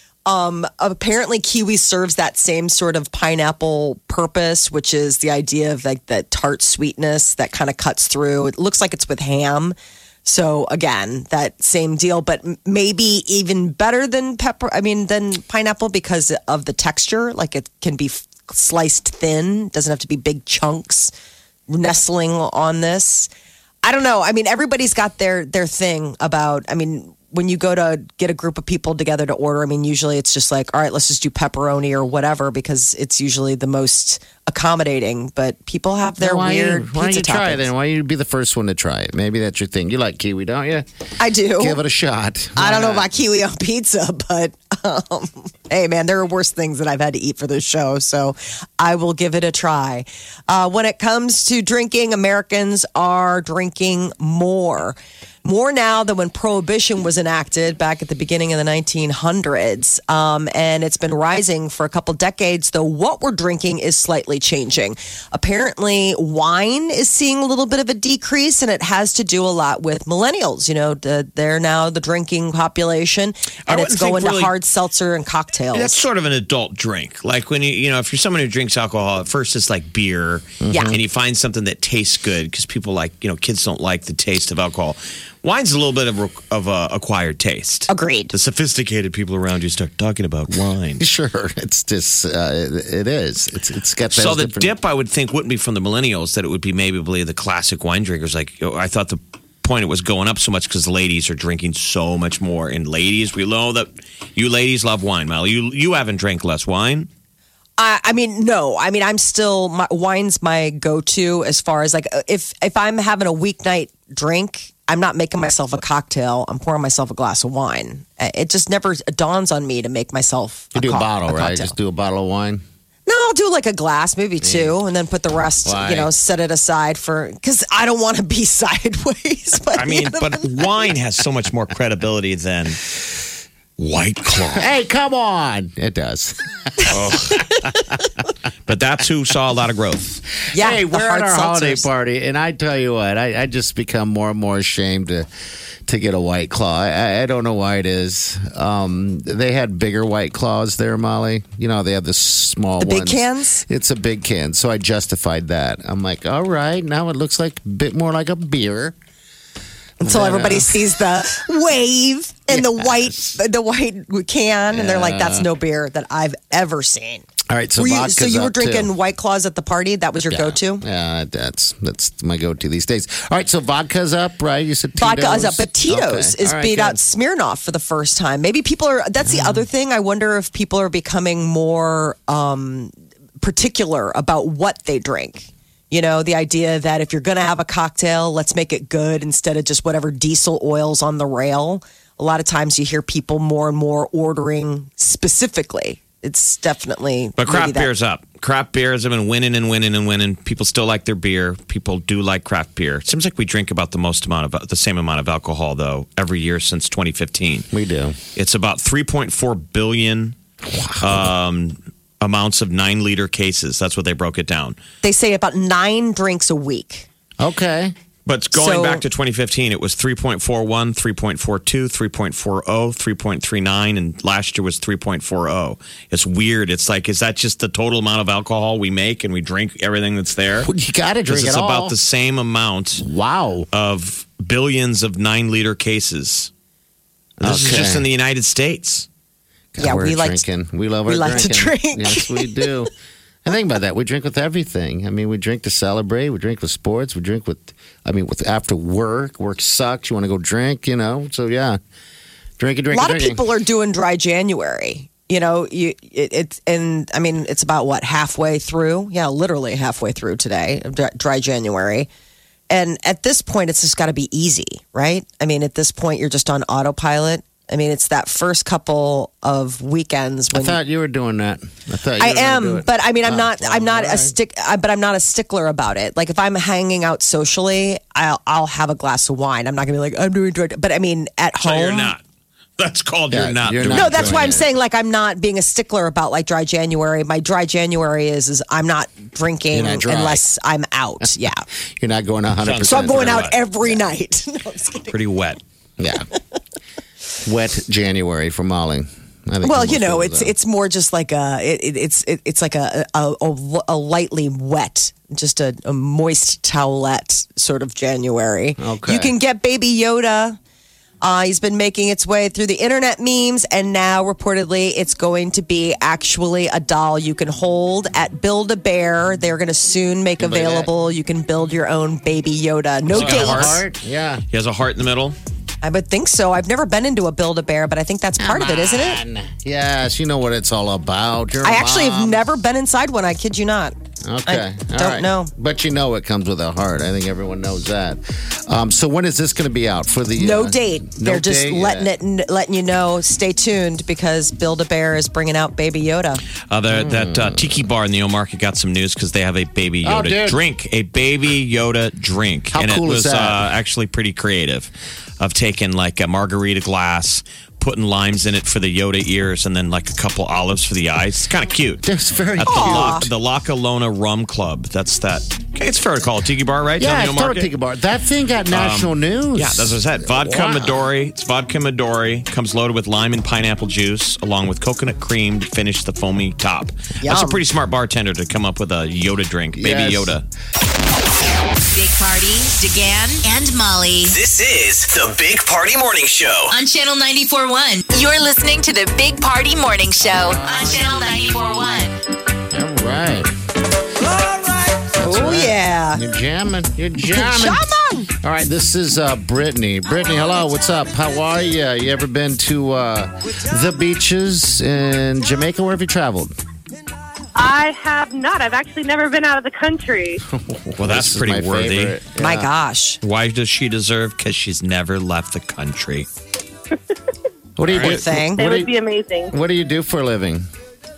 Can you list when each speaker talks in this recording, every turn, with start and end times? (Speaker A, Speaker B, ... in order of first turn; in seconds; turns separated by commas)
Speaker A: 0.3-21.1, Speaker A: 21.7-23.3, Speaker A: 23.8-37.7, Speaker B: 36.2-40.9, Speaker A: 41.2-41.8, Speaker B: 41.6-43.1, Speaker A: 42.6-76.1, Speaker C: 73.7-74.5, Speaker C: 75.7-91.0, Speaker B: 80.6-81.0, Speaker A: 80.7-81.0, Speaker A: 87.9-88.3, Speaker B: 91.0-94.7, Speaker C: 94.1-107.1, Speaker A: 107.8-121.8, Speaker B: 120.7-122.6, Speaker A: 123.1-130.9, Speaker B: 124.4-124.8, Speaker B: 125.7-126.1, Speaker C: 129.8-132.9, Speaker C: 133.8-134.7, Speaker B: 134.6-137.9, Speaker C: 136.9-137.4, Speaker C: 138.7-140.2, Speaker A: 140.5-141.9, Speaker B: 140.5-145.3, Speaker B: 145.9-159.0, Speaker A: 152.8-153.6, Speaker B: 160.0-160.8, Speaker A: 160.0-167.3, Speaker B: 162.5-163.4, Speaker B: 164.7-165.5, Speaker B: 167.5-168.9, Speaker A: 167.8-170.8, Speaker B: 170.3-177.0, Speaker A: 175.0-197.9, Speaker B: 179.2-179.7, Speaker C: 197.4-207.7, Speaker B: 207.7-208.2, Speaker C: 208.3-210.4, Speaker B: 210.7-211.2, Speaker C: 211.0-214.8, Speaker A: 215.0-217.1, Speaker B: 217.4-217.9, Speaker C: 218.3-230.7, Speaker A: 218.5-219.0, Speaker B: 230.6-232.0, Speaker C: 231.3-233.0, Speaker B: 233.0-233.7, Speaker C: 233.7-236.5, Speaker B: 237.4-238.1, Speaker C: 237.4-239.1, Speaker B: 239.7-242.9, Speaker A: 239.8-240.5, Speaker A: 241.1-242.7, Speaker B: 243.4-251.8, Speaker B: 252.6-253.5, Speaker A: 252.9-262.1, Speaker A: 262.7-270.8, Speaker B: 270.5-274.4, Speaker A: 272.2-282.1, Speaker C: 281.6-282.2, Speaker C: 282.8-284.6, Speaker B: 283.3-284.7, Speaker A: 283.9-291.6, Speaker B: 289.7-290.4, Speaker B: 292.0-294.1, Speaker C: 292.6-293.6, Speaker A: 292.9-295.2, Speaker C: 295.1-295.6, Speaker B: 296.0-296.3, Speaker B: 297.4-300.6, Speaker A: 299.6-310.6, Speaker B: 308.8-309.3, Speaker A: 311.2-323.8, Speaker B: 320.4-320.9, Speaker B: 323.1-324.4, Speaker C: 323.1-323.8, Speaker C: 324.5-325.4, Speaker A: 325.8-329.2, Speaker B: 328.4-332.4, Speaker A: 331.6-333.9, Speaker B: 334.2-342.1, Speaker A: 334.5-335.5, Speaker A: 340.4-346.4, Speaker C: 346.7-362.1, Speaker B: 346.9-347.8, Speaker B: 350.0-350.6, Speaker B: 352.7-353.6, Speaker B: 362.0-363.2, Speaker C: 362.6-367.7, Speaker A: 362.6-363.3, Speaker B: 367.0-371.1, Speaker C: 368.7-380.4, Speaker A: 377.2-377.6, Speaker B: 379.7-380.4, Speaker D: 381.9-384.4, Speaker E: 384.3-386.7, Speaker D: 386.7-392.2, Speaker B: 390.4-391.3, Speaker B: 392.7-393.5, Speaker A: 395.1-396.2, Speaker B: 395.2-397.9, Speaker A: 397.3-398.3, Speaker B: 398.4-406.5, Speaker F: 407.6-410.4, Speaker B: 410.5-412.7, Speaker C: 411.0-412.2, Speaker A: 412.4-413.2, Speaker C: 413.2-416.3, Speaker B: 417.8-418.9, Speaker A: 418.0-418.7, Speaker F: 418.6-419.5, Speaker B: 419.5-420.7